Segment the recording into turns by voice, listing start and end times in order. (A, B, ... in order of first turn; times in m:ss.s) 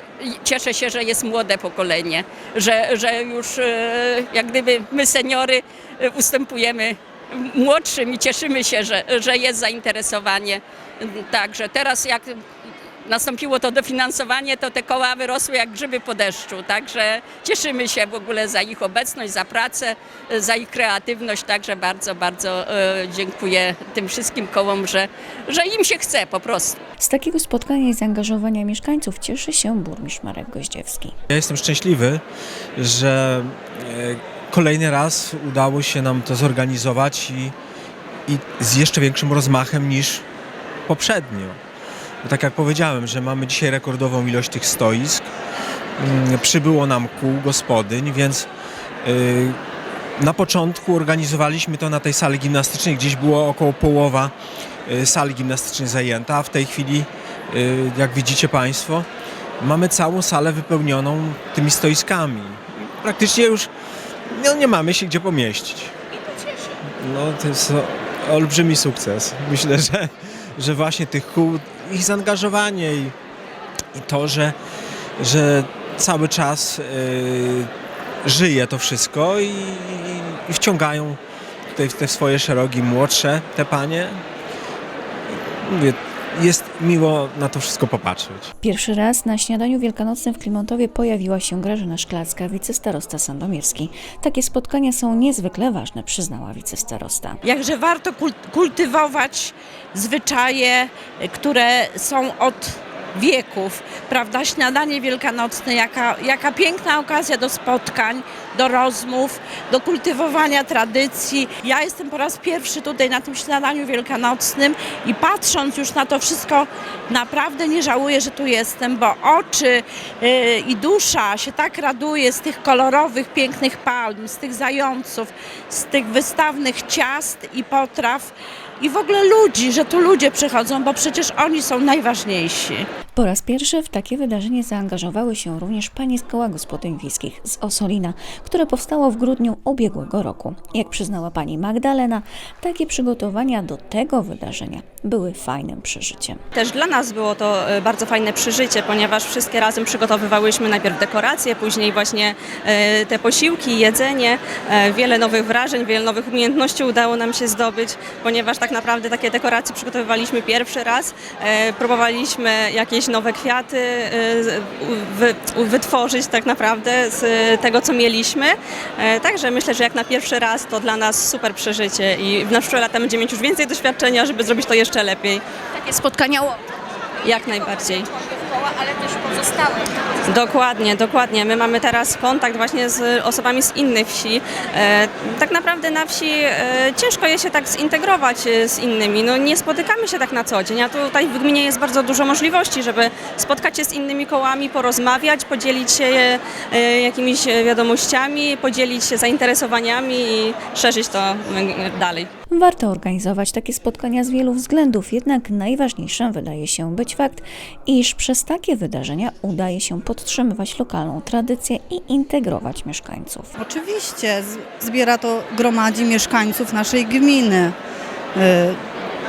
0:00.2-0:12.4 A
0:13.0-0:26.8 A
0:27.0-0:31.1 B
0:31.3-0:32.2 C
0:32.8-0:37.5 C
0:38.3-0:40.2 C
0:40.9-0:41.6 C
0:42.2-0:45.3 C
0:46.0-0:48.5 C
0:49.0-0:49.6 C
0:50.2-0:54.3 C
0:54.8-0:59.1 C
0:59.6-1:03.7 C
1:04.3-1:05.9 C
1:07.0-1:13.1 C
1:13.9-1:14.6 C
1:15.2-1:17.7 C
1:18.2-1:21.2 C
1:21.7-1:24.2 C
1:25.5-1:28.5 C
1:28.6-1:37.4 B
1:37.4-2:12.9 D
2:13.2-2:26.4 B
2:26.6-2:55.4 E
2:57.2-3:22.3 E
3:22.5-3:33.5 B
3:33.6-3:37.7 F
3:38.3-3:38.8 F